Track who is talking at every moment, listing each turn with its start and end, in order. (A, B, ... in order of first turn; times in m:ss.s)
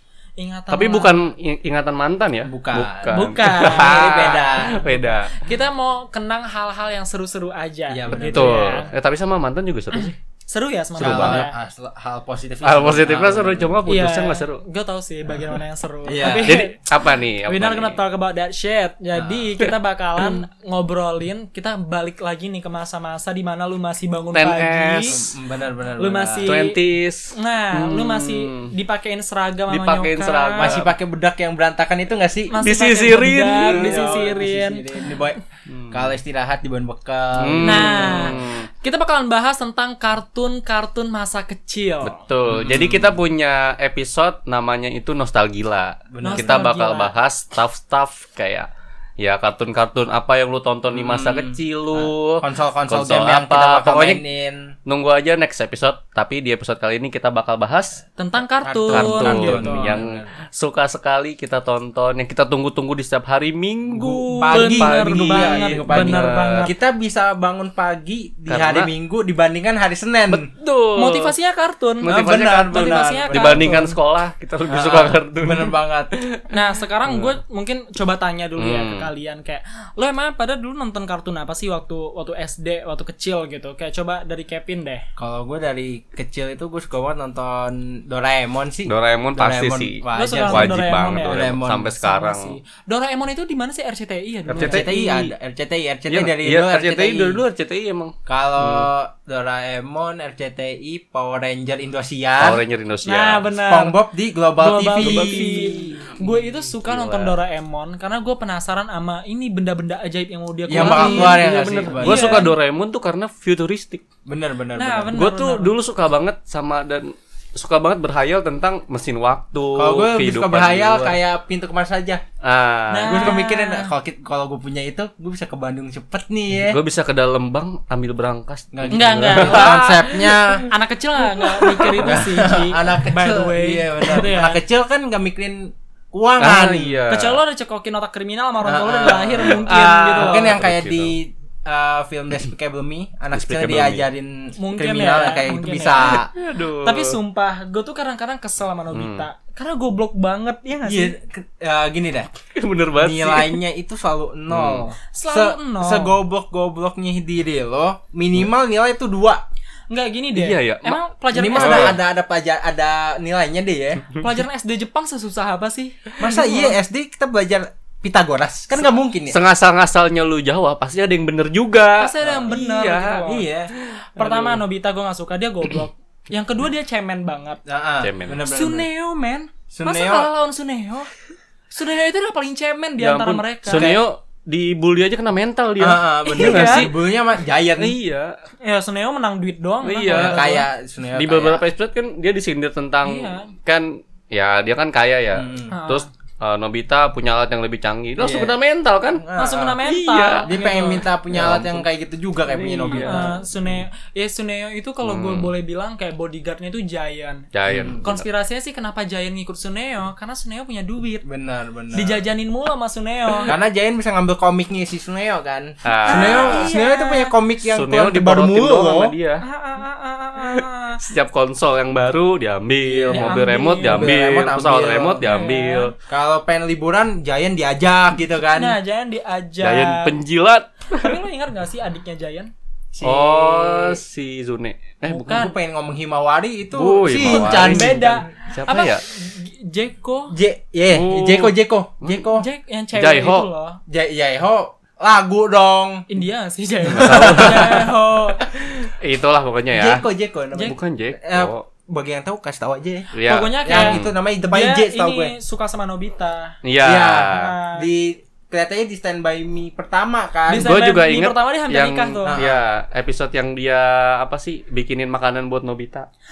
0:00.4-0:01.3 A
0:00.7-0:05.4 B
0:02.5-0:04.8 C
0:03.1-0:08.9 A
0:07.9-0:08.8 C
0:08.2-0:10.2 B
0:09.9-0:11.5 A
0:11.0-0:11.4 B
0:11.0-0:13.8 C
0:12.6-0:14.6 B
0:13.9-0:25.2 A
0:16.1-0:16.6 C
0:16.2-0:18.0 B
0:19.2-0:19.5 C
0:24.3-0:25.2 B
0:25.1-0:26.6 C
0:26.0-0:26.8 A
0:26.4-0:28.7 B
0:27.3-0:30.7 A
0:29.7-0:30.9 B
0:30.6-0:32.6 C
0:32.5-0:35.0 A
0:32.6-0:34.1 B
0:33.6-0:35.4 C
0:35.7-0:36.1 B
0:35.9-0:38.5 C
0:37.4-0:38.7 B
0:37.6-0:42.2 A
0:42.0-0:48.7 B
0:42.5-0:43.2 C
0:46.1-0:46.7 C
0:46.2-0:47.1 A
0:49.2-0:54.2 B
0:50.9-0:54.7 C
0:54.8-0:58.0 B
0:58.2-1:00.0 A
0:58.6-1:00.3 C
0:58.9-1:06.7 B
1:03.9-1:10.5 C
1:04.3-1:06.7 A
1:08.5-1:08.9 B
1:10.3-1:11.3 B
1:10.9-1:13.9 A
1:12.0-1:17.3 B
1:12.1-1:14.0 C
1:14.7-1:16.2 C
1:16.5-1:25.1 A
1:18.6-1:19.1 B
1:25.2-1:31.9 C
1:28.9-1:32.6 B
1:30.1-1:31.4 A
1:32.0-1:34.9 A
1:34.5-1:35.3 B
1:34.6-1:37.4 C
1:36.1-1:38.9 B
1:38.3-1:42.6 C
1:42.4-1:43.5 B
1:43.0-1:44.0 A
1:43.6-1:46.1 C
1:44.6-1:51.5 A
1:45.0-1:45.8 B
1:46.8-1:47.3 B
1:50.7-1:52.5 C
1:50.7-1:54.0 B
1:52.0-1:52.6 A
1:54.3-1:55.2 C
1:54.8-1:55.7 A
1:55.1-2:01.2 B
1:59.8-2:02.2 C
2:02.4-2:03.4 B
2:02.9-2:03.9 A
2:03.0-2:06.8 C
2:06.7-2:10.7 B
2:08.7-2:10.6 C
2:08.9-2:14.6 A
2:11.3-2:12.3 B
2:12.0-2:17.0 C
2:16.4-2:17.4 B
2:17.1-2:20.5 A
2:18.6-2:19.6 C
2:19.1-2:21.2 B
2:20.2-2:26.3 C
2:23.3-2:24.1 B
2:24.6-2:26.2 A
2:25.9-2:27.2 B
2:26.8-2:31.2 A
2:28.9-2:29.3 B
2:30.9-2:32.3 C
2:32.6-2:33.6 B
2:33.0-2:39.4 C
2:34.5-2:34.8 B
2:35.1-2:36.2 A
2:39.9-2:42.0 A
2:40.3-2:41.0 B
2:41.3-2:44.1 C
2:41.5-2:42.0 B
2:44.2-2:46.8 A
2:46.2-2:49.4 C
2:49.3-2:54.6 B
2:52.0-2:53.5 A
2:52.2-2:53.7 C
2:54.2-2:57.6 A
2:57.7-2:58.9 C
2:58.0-2:58.4 B
2:58.5-3:01.1 A
2:59.7-3:00.3 C
3:01.7-3:04.0 A
3:03.0-3:06.9 B
3:03.7-3:04.0 C
3:05.8-3:08.0 C
3:06.3-3:06.9 A
3:07.8-3:08.4 B
3:08.6-3:10.7 A
3:09.8-3:10.5 B
3:10.1-3:11.6 C
3:11.2-3:19.2 B
3:13.0-3:13.5 A
3:15.3-3:15.8 C
3:15.7-3:16.1 A
3:18.2-3:18.6 C
3:19.2-3:19.8 C
3:19.4-3:21.1 A
3:19.8-3:21.8 B
3:20.4-3:23.4 C
3:22.5-3:23.3 B
3:22.9-3:27.5 A
3:25.0-3:25.5 B
3:27.5-3:28.2 B
3:27.7-3:28.0 C
3:28.0-3:31.2 A
3:31.2-3:32.2 C
3:31.9-3:33.5 A
3:33.5-3:39.1 C
3:35.8-3:36.7 B
3:36.0-3:37.3 A
3:37.7-3:39.4 B
3:39.4-3:41.0 A
3:41.0-3:45.9 B
3:42.8-3:45.3 C
3:43.1-3:44.1 A
3:45.2-3:45.9 A
3:46.1-3:48.8 C
3:48.5-3:50.2 A
3:49.6-3:51.2 B
3:50.9-3:52.5 A
3:52.9-3:54.0 C
3:53.0-3:55.5 B
3:55.0-3:55.5 A
3:55.3-3:58.3 C
3:56.7-3:59.0 B
3:57.2-4:00.4 A
4:00.3-4:02.4 C
4:00.9-4:02.2 B
4:02.3-4:03.8 A
4:03.0-4:03.5 B
4:03.9-4:06.1 C
4:06.1-4:08.4 A
4:06.8-4:07.9 C
4:06.9-4:07.8 B
4:08.9-4:10.1 B
4:09.7-4:13.1 C
4:10.6-4:11.6 B
4:13.1-4:14.1 B
4:13.2-4:16.6 A
4:13.6-4:15.3 C
4:16.6-4:17.5 B
4:16.8-4:20.8 C
4:17.3-4:17.9 A
4:20.5-4:22.4 A
4:20.6-4:26.1 B
4:22.3-4:22.6 C